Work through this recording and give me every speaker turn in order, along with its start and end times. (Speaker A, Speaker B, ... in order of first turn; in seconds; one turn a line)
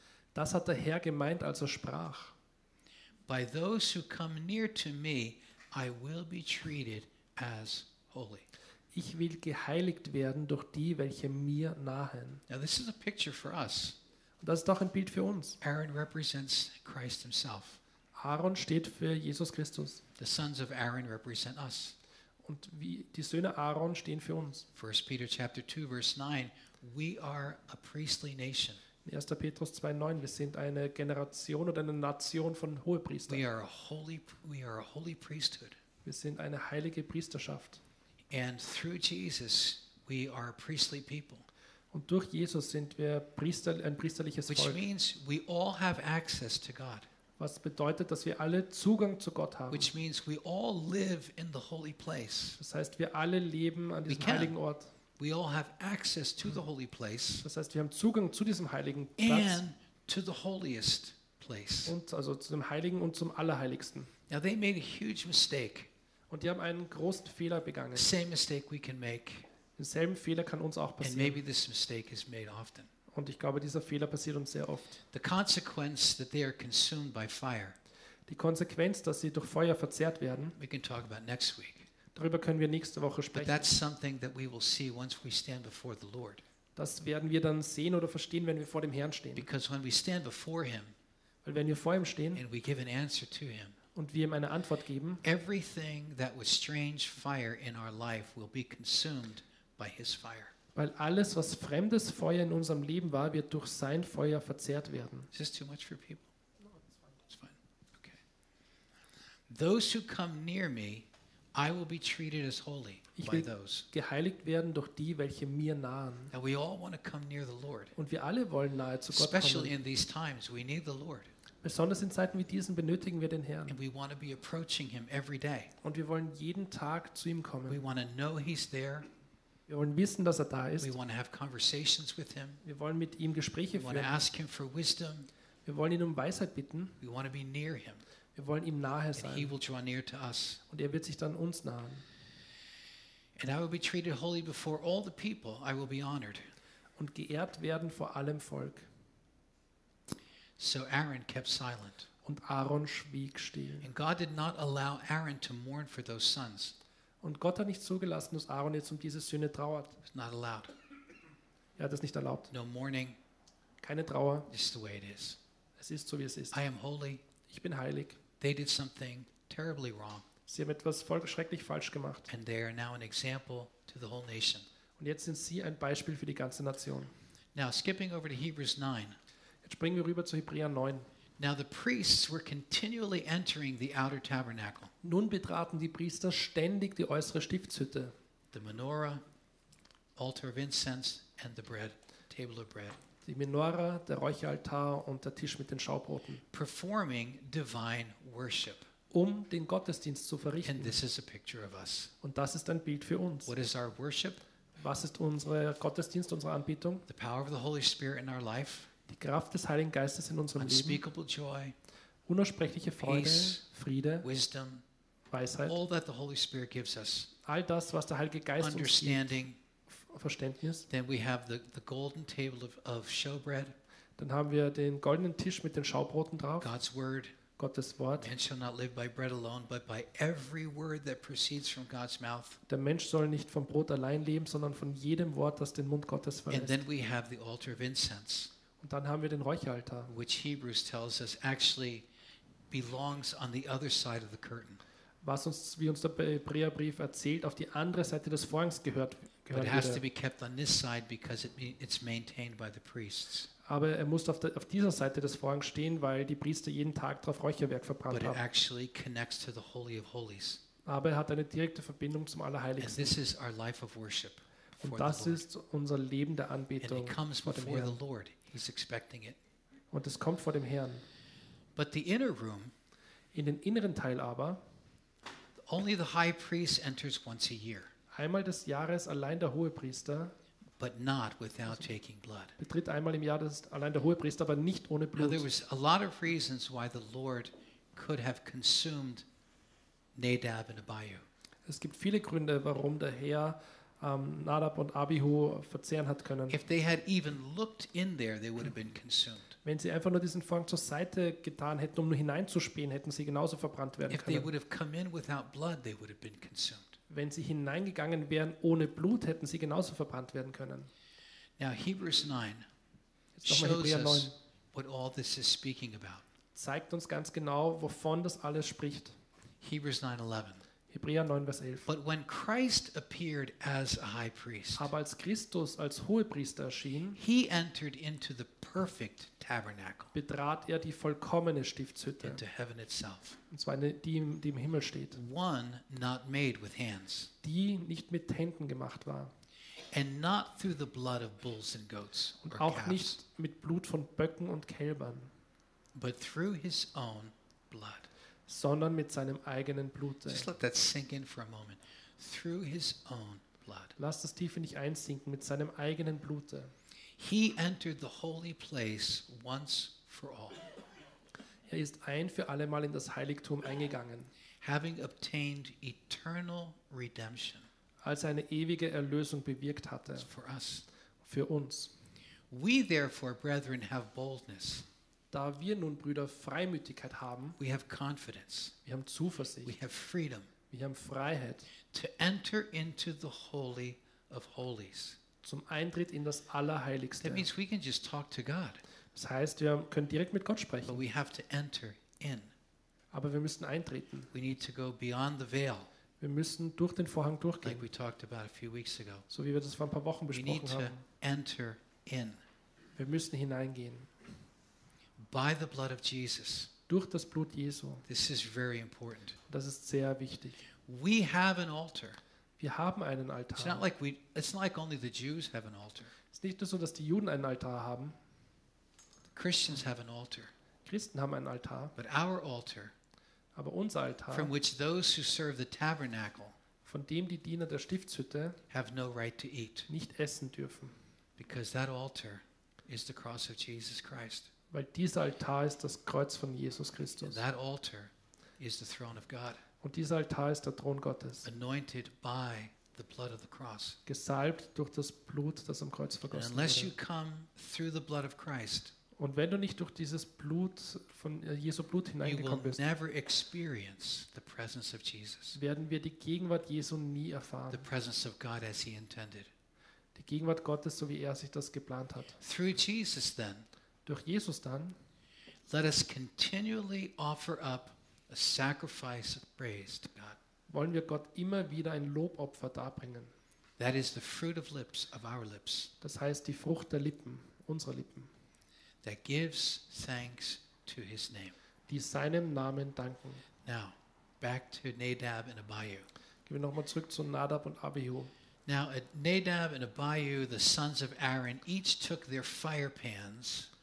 Speaker A: 0.3-2.4
Speaker B: 3.3-8.5
Speaker A: 8.9-12.4
Speaker B: 12.5-14.0
Speaker A: 14.4-15.6
Speaker B: 15.6-17.8
Speaker A: 18.2-20.0
Speaker B: 20.2-22.0
Speaker A: 22.4-24.7
Speaker B: 24.8-28.8
Speaker A: 29.0-33.4
Speaker B: 33.3-35.8
Speaker A: 36.0-37.8
Speaker B: 38.3-41.5
Speaker A: 41.9-44.8
Speaker B: 44.5-47.1
Speaker A: 47.4-49.9
Speaker B: 49.7-52.6
Speaker A: 52.6-54.9
Speaker B: 54.1-54.6
Speaker B: 55.2-57.5
Speaker A: 57.4-59.6
Speaker B: 59.2-62.0
Speaker A: 61.9-64.1
Speaker B: 64.3-65.9
Speaker A: 66.3-68.1
Speaker B: 68.0-69.5
Speaker A: 69.8-71.4
Speaker B: 71.0-72.9
Speaker A: 73.1-75.0
Speaker B: 75.1-77.8
Speaker A: 78.3-80.6
Speaker B: 80.6-81.9
Speaker A: 82.1-83.7
Speaker B: 83.3-86.4
Speaker A: 86.8-89.5
Speaker B: 89.4-91.0
Speaker A: 91.5-92.4
Speaker B: 92.3-93.8
Speaker A: 94.0-95.2
Speaker B: 95.2-100.5
Speaker A: 100.8-105.3
Speaker B: 105.3-106.3
Speaker B: 107.3-108.2
Speaker B: 109.5-113.9
Speaker A: 113.2-116.3
Speaker B: 116.3-118.0
Speaker A: 118.0-119.7
Speaker B: 119.1-121.3
Speaker A: 121.6-123.8
Speaker B: 123.7-125.7
Speaker A: 125.8-127.8
Speaker B: 127.7-129.1
Speaker A: 129.7-130.9
Speaker B: 130.8-132.6
Speaker A: 132.6-134.2
Speaker B: 133.7-135.3
Speaker A: 135.7-137.0
Speaker B: 137.0-138.0
Speaker A: 138.4-139.5
Speaker B: 139.2-140.6
Speaker A: 140.7-142.1
Speaker B: 143.4-146.5
Speaker A: 147.0-148.9
Speaker B: 150.6-152.1
Speaker A: 152.2-153.9
Speaker B: 153.8-156.8
Speaker A: 157.2-160.0
Speaker B: 160.1-160.7
Speaker A: 161.8-162.5
Speaker B: 162.5-163.2
Speaker A: 163.8-164.5
Speaker B: 164.5-165.4
Speaker A: 165.8-166.6
Speaker B: 166.5-167.2
Speaker A: 167.5-168.2
Speaker B: 168.4-170.3
Speaker A: 170.5-172.3
Speaker B: 172.3-174.7
Speaker A: 175.0-177.1
Speaker B: 177.6-179.2
Speaker A: 179.6-181.1
Speaker B: 181.4-184.9
Speaker A: 185.0-188.1
Speaker B: 188.5-189.2
Speaker B: 190.2-193.0
Speaker A: 193.2-196.4
Speaker B: 196.5-198.9
Speaker A: 199.1-201.0
Speaker B: 200.7-202.1
Speaker A: 202.2-203.5
Speaker B: 203.5-204.4
Speaker A: 204.8-207.1
Speaker B: 207.1-208.9
Speaker A: 209.1-211.0
Speaker B: 210.6-211.8
Speaker A: 212.3-214.3
Speaker B: 213.0-213.6
Speaker B: 214.2-214.8
Speaker A: 215.3-215.8
Speaker B: 215.7-217.3
Speaker A: 217.4-219.3
Speaker B: 218.6-219.6
Speaker A: 219.9-220.9
Speaker B: 220.9-223.8
Speaker A: 224.2-226.7
Speaker B: 226.6-227.4
Speaker A: 227.6-228.3
Speaker B: 228.2-232.6
Speaker A: 232.7-236.8
Speaker B: 236.5-238.5
Speaker A: 238.8-240.1
Speaker B: 240.1-242.1
Speaker B: 242.7-244.8
Speaker A: 245.2-250.0
Speaker B: 249.5-253.5
Speaker A: 253.7-258.4
Speaker B: 258.1-260.6
Speaker A: 260.9-263.2
Speaker B: 262.8-265.4
Speaker A: 264.8-268.0
Speaker B: 266.8-269.4
Speaker A: 269.9-271.1
Speaker B: 271.8-272.7
Speaker A: 273.3-274.6
Speaker B: 275.6-277.9
Speaker A: 278.1-280.3
Speaker B: 280.8-282.6
Speaker A: 282.6-285.5
Speaker B: 285.2-289.3
Speaker B: 290.1-291.3
Speaker A: 291.7-296.6
Speaker B: 296.5-299.6
Speaker A: 299.6-304.5
Speaker B: 304.1-307.0
Speaker A: 307.1-310.9
Speaker B: 311.6-312.7
Speaker A: 313.4-314.4
Speaker B: 313.4-316.2
Speaker A: 316.6-319.2
Speaker B: 319.6-320.6
Speaker A: 320.9-321.9
Speaker B: 321.9-324.9
Speaker A: 324.8-327.2
Speaker B: 327.1-330.1
Speaker A: 330.1-332.4
Speaker B: 332.2-333.4
Speaker A: 333.5-335.2
Speaker B: 335.1-337.3
Speaker A: 337.4-339.3
Speaker B: 339.9-343.2
Speaker A: 342.4-345.3
Speaker B: 345.9-348.1
Speaker A: 348.5-350.5
Speaker B: 350.3-354.0
Speaker A: 354.0-356.7
Speaker B: 357.2-360.6
Speaker A: 361.7-364.3
Speaker B: 364.6-367.7
Speaker A: 368.0-370.3
Speaker B: 370.2-370.9
Speaker A: 371.2-371.9
Speaker B: 372.5-374.9
Speaker A: 375.3-377.6
Speaker B: 377.6-378.8
Speaker A: 378.9-379.8
Speaker B: 379.6-380.5
Speaker A: 380.7-381.7
Speaker B: 381.9-385.2
Speaker A: 385.4-387.5
Speaker B: 387.2-388.8
Speaker A: 389.1-391.0
Speaker B: 390.9-392.5
Speaker A: 393.1-394.3
Speaker B: 394.3-395.9
Speaker A: 396.2-397.8
Speaker B: 397.6-399.3
Speaker A: 399.3-401.0
Speaker B: 400.3-402.4
Speaker A: 403.0-404.1
Speaker B: 405.2-406.7
Speaker A: 406.9-408.1
Speaker B: 408.1-409.4
Speaker A: 409.5-410.7
Speaker B: 410.9-412.2
Speaker A: 412.6-413.9
Speaker B: 413.6-416.1
Speaker A: 416.3-418.2
Speaker B: 419.3-420.5
Speaker A: 420.9-421.9
Speaker B: 422.0-422.9
Speaker A: 423.6-424.5
Speaker B: 424.3-426.6
Speaker A: 426.9-428.6
Speaker B: 428.7-429.9
Speaker A: 429.9-431.0
Speaker B: 431.4-434.5
Speaker A: 434.7-437.4
Speaker B: 437.2-439.6
Speaker A: 439.8-441.5
Speaker B: 441.4-444.0
Speaker A: 444.1-446.9
Speaker B: 446.3-448.9
Speaker A: 449.2-452.8
Speaker B: 452.2-455.6
Speaker A: 455.5-457.8
Speaker B: 457.7-459.5
Speaker A: 460.2-462.4
Speaker B: 462.4-463.7
Speaker A: 464.1-464.9
Speaker B: 465.7-470.4
Speaker A: 470.7-473.3
Speaker B: 473.8-475.9
Speaker A: 476.0-478.3
Speaker B: 479.0-481.6
Speaker A: 481.9-483.4
Speaker B: 483.6-486.1
Speaker A: 486.5-488.3
Speaker B: 488.7-493.7